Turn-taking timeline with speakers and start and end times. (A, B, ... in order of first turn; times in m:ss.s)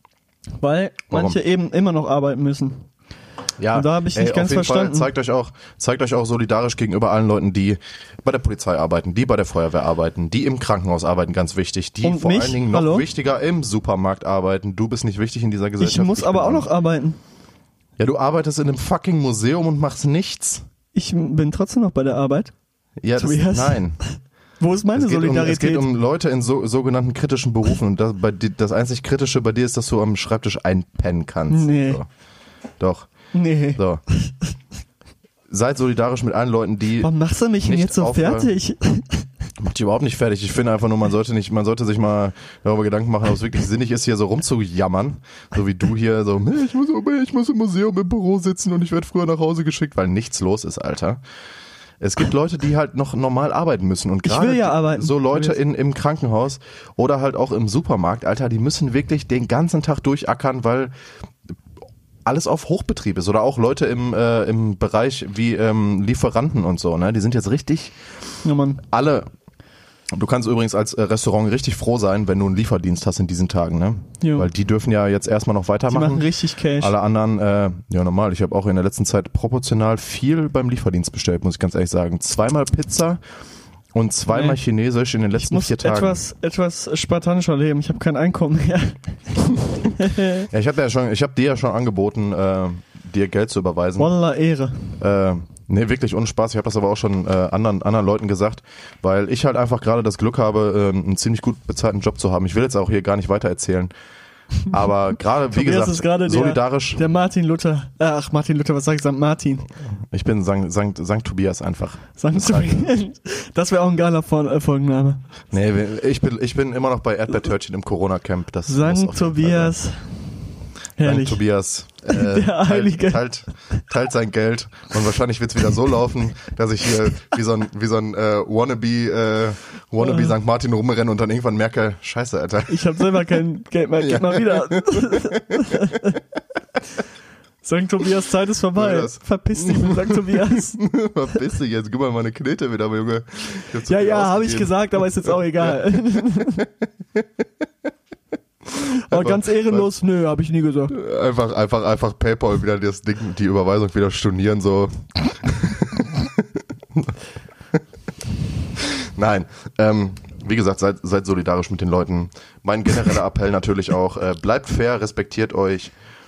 0:00.6-0:02.9 A
0:01.1-0:01.4 B
0:03.6-0:16.7 B
0:03.7-0:05.1 A
0:12.0-0:13.1 A
0:15.8-0:17.2 A
0:18.0-0:20.7 B
0:20.9-0:22.5 A
0:23.0-0:24.0 B
0:23.2-0:23.9 A
0:24.6-0:25.9 A
0:24.9-0:32.1 B
0:31.5-0:32.0 A
0:32.8-0:34.0 B
0:33.3-0:34.3 A
0:35.5-0:38.5 B
0:37.0-0:39.3 A
0:39.6-0:51.2 B
0:52.0-1:00.9 B
0:54.3-0:55.6 A
1:02.2-1:08.0 B
1:08.4-1:08.8 A
1:08.8-1:09.3 B
1:10.1-1:23.2 B
1:14.2-1:14.5 A
1:15.9-1:16.9 A
1:23.9-1:26.2 B
1:24.3-1:24.6 A
1:25.4-1:30.4 A
1:30.5-1:34.1 B
1:34.0-1:35.0 A
1:35.0-1:43.9 B
1:44.7-1:47.0 B
1:45.5-1:49.7 A
1:50.1-1:52.9 B
1:52.2-1:55.2 A
1:55.5-1:59.8 B
1:58.7-2:00.3 A
2:01.0-2:01.4 A
2:01.0-2:13.0 B
2:02.1-2:03.2 A
2:10.0-2:10.3 A
2:12.7-2:16.2 A
2:14.0-2:15.7 B
2:17.6-2:20.8 A
2:18.8-2:25.8 B
2:23.9-2:26.7 A
2:29.1-2:31.0 A
2:29.1-2:29.9 B
2:30.9-2:37.2 B
2:38.8-2:45.9 B